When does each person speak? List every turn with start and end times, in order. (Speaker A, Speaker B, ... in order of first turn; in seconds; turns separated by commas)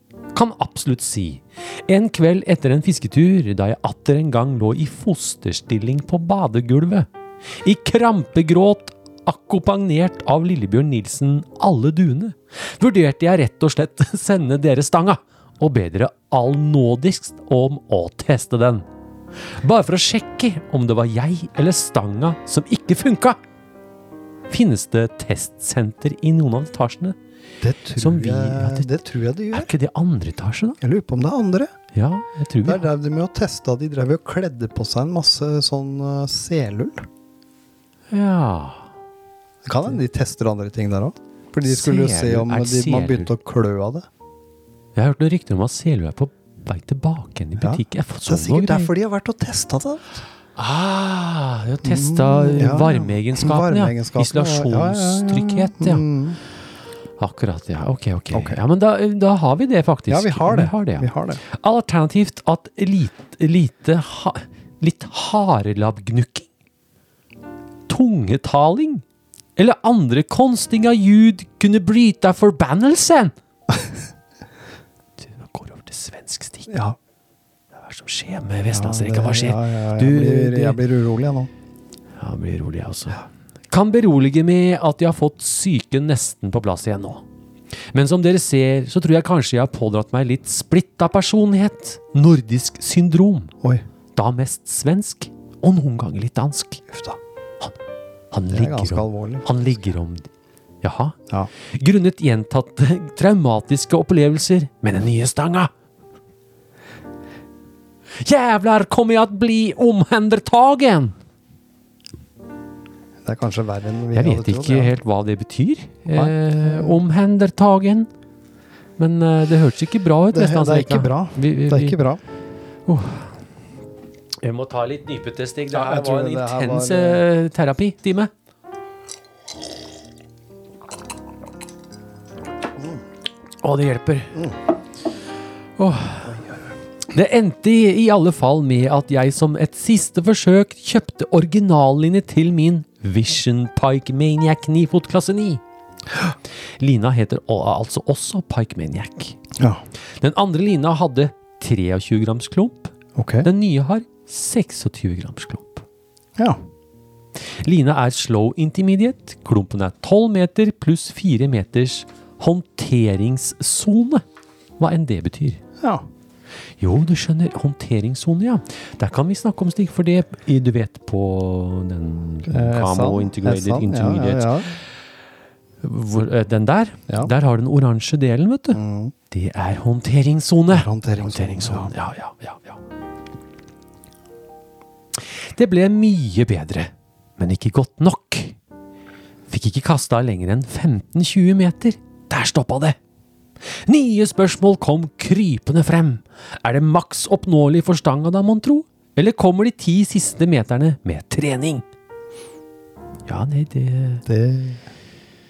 Speaker A: 0.3-7.1, Speaker A: 7.6-18.9, Speaker A: 19.5-23.4, Speaker A: 24.5-27.2, Speaker B: 27.6-29.7, Speaker A: 28.0-28.9, Speaker A: 29.5-30.8, Speaker B: 30.8-31.7, Speaker A: 31.9-32.9, Speaker B: 32.6-37.1, Speaker A: 38.1-38.9, Speaker B: 39.6-44.1, Speaker A: 41.6-43.3, Speaker A: 45.0-48.9, Speaker B: 47.6-50.2, Speaker A: 50.6-56.0, Speaker B: 51.8-56.4, Speaker A: 57.2-66.5, Speaker B: 58.3-58.6, Speaker B: 60.1-61.4, Speaker A: 67.9-69.0, Speaker A: 69.6-73.3, Speaker A: 75.2-76.7, Speaker B: 76.7-77.0, Speaker A: 77.8-80.8, Speaker B: 78.7-81.5, Speaker A: 82.2-87.2, Speaker A: 87.9-93.5, Speaker A: 94.2-96.8, Speaker B: 96.9-97.2, Speaker A: 98.3-100.3, Speaker B: 98.5-99.5, Speaker A: 100.8-105.7, Speaker A: 108.2-111.2, Speaker B: 113.2-114.9, Speaker A: 114.1-118.1, Speaker B: 116.1-117.0, Speaker A: 119.0-122.0, Speaker B: 120.3-122.2, Speaker A: 122.9-123.3, Speaker A: 124.4-128.3, Speaker B: 125.7-127.2, Speaker A: 133.6-134.4, Speaker A: 135.8-136.3, Speaker B: 136.3-136.6, Speaker A: 137.1-145.6, Speaker A: 146.8-149.4, Speaker A: 150.2-155.8, Speaker B: 153.2-153.5, Speaker A: 157.6-164.2, Speaker A: 164.8-165.6, Speaker B: 165.8-166.1, Speaker A: 166.8-174.8, Speaker B: 172.5-174.7, Speaker A: 175.8-178.8, Speaker B: 178.7-179.1, Speaker A: 179.3-182.8, Speaker B: 180.7-181.9, Speaker A: 185.2-188.6, Speaker A: 189.5-193.0, Speaker A: 193.7-201.8, Speaker A: 203.3-204.2, Speaker B: 204.3-204.8